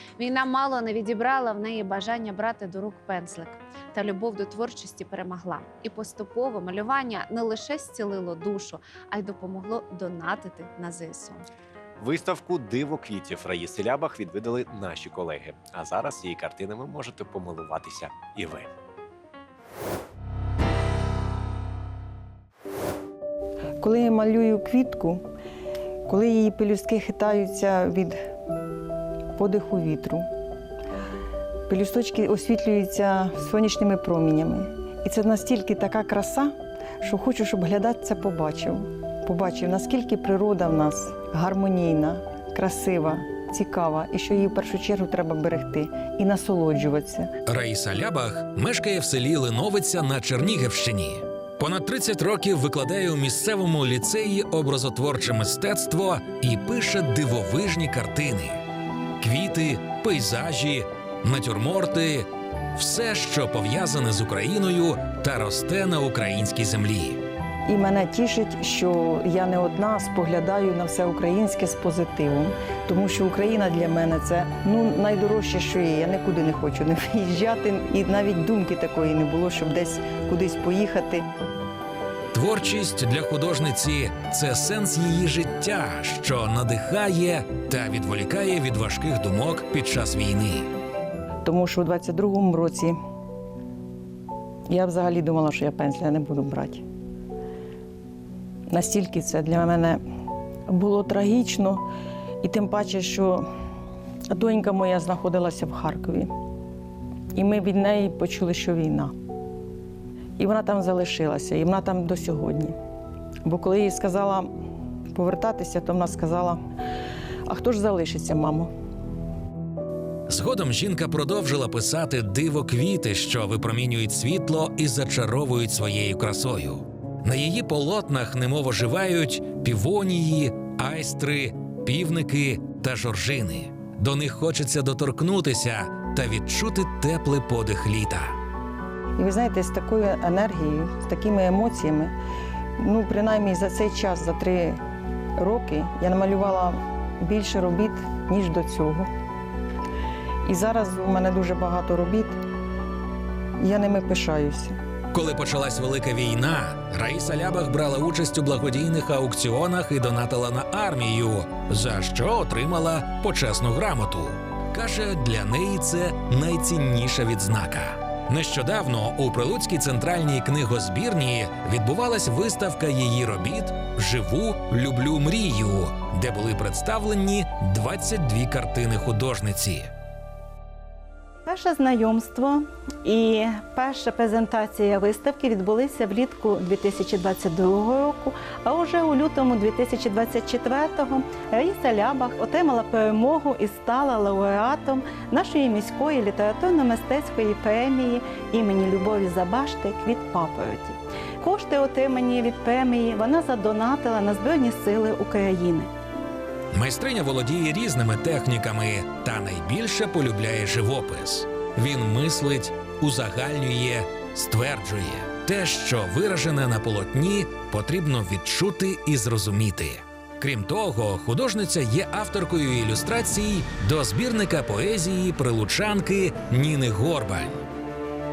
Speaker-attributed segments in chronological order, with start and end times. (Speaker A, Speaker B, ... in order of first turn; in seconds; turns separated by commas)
Speaker A: 0.2-11.4, Speaker B: 12.0-18.7, Speaker C: 23.8-25.2, Speaker C: 26.1-28.2, Speaker C: 29.4-30.3, Speaker C: 31.7-47.3, Speaker D: 47.5-58.6, Speaker D: 59.2-67.2, Speaker C: 67.7-81.3, Speaker D: 82.3-90.7, Speaker C: 91.4-93.0, Speaker C: 94.7-96.8, Speaker C: 98.7-100.0, Speaker C: 100.7-101.8, Speaker C: 102.4-103.5, Speaker C: 104.3-106.3, Speaker C: 107.3-109.1, Speaker C: 110.4-112.8, Speaker C: 113.5-114.5, Speaker C: 115.1-116.6, Speaker C: 117.5-118.7, Speaker D: 120.3-138.3, Speaker C: 139.2-142.1, Speaker C: 142.8-144.8, Speaker C: 145.4-149.1, Speaker C: 150.4-152.4, Speaker C: 153.6-154.7, Speaker D: 155.1-179.9, Speaker E: 181.4-205.9, Speaker D: 206.7-227.6